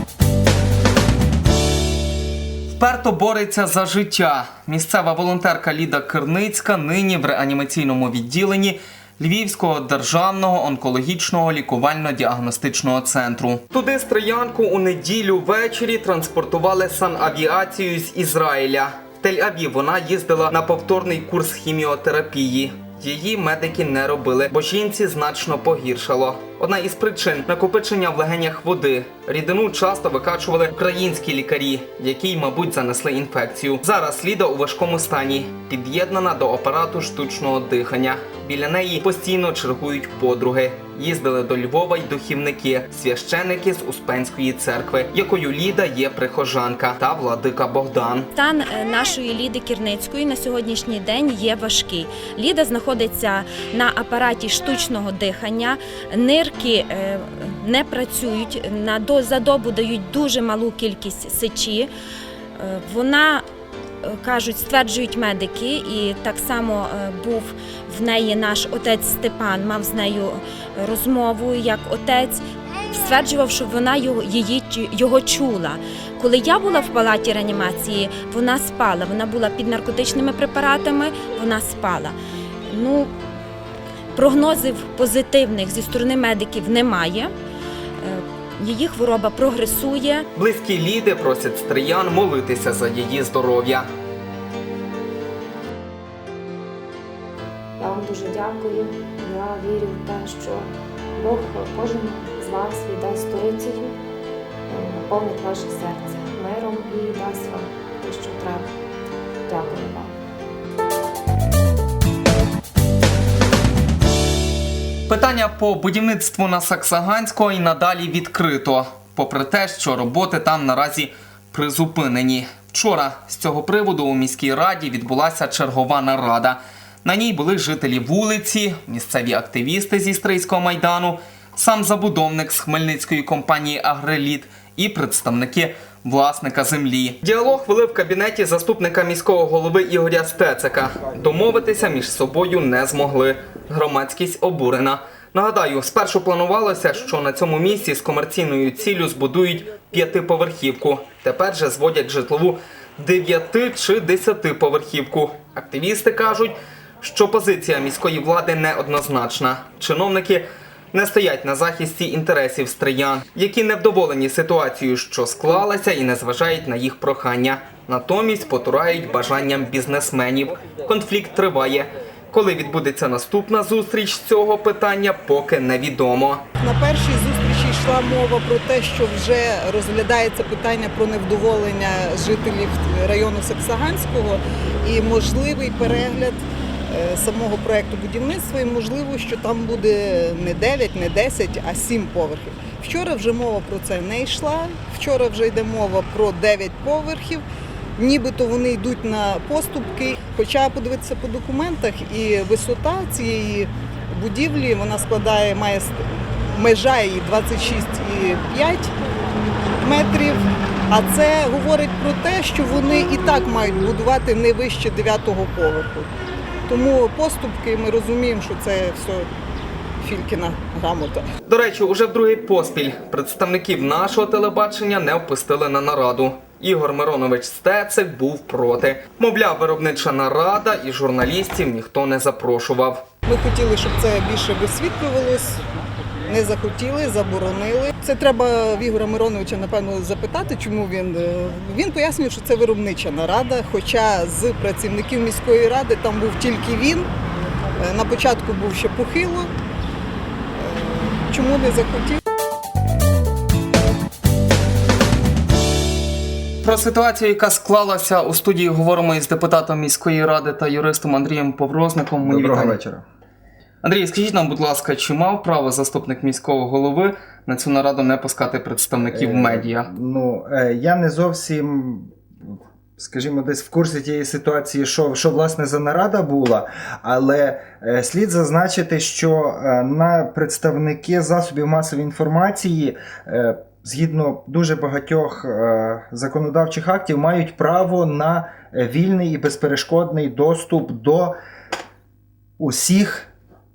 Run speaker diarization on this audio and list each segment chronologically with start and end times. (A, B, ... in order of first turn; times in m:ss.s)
0:02.7-0:48.3 A
0:48.3-1:01.9 B
1:02.6-1:03.4 B
1:04.0-1:22.1 B
1:22.7-1:23.1 B
1:24.1-1:27.3 B
1:28.0-1:30.2 B
1:30.3-1:33.9 A
1:37.8-1:44.0 C
1:44.7-1:48.7 C
1:49.5-1:50.1 C
1:55.1-2:56.4 A
2:56.6-3:17.4 D
3:18.0-3:29.3 D
3:29.8-3:36.1 D
3:36.7-3:39.3 D
3:40.0-3:41.2 D
3:41.4-3:53.0 A
3:53.2-3:55.6 D
3:56.3-4:07.1 D
4:07.8-4:09.5 D
4:10.6-4:12.2 D
4:16.6-4:22.8 A
4:22.2-4:23.0 E
4:23.8-4:29.9 A
4:29.1-4:32.1 E
4:33.0-4:51.3 E
4:52.6-4:53.3 E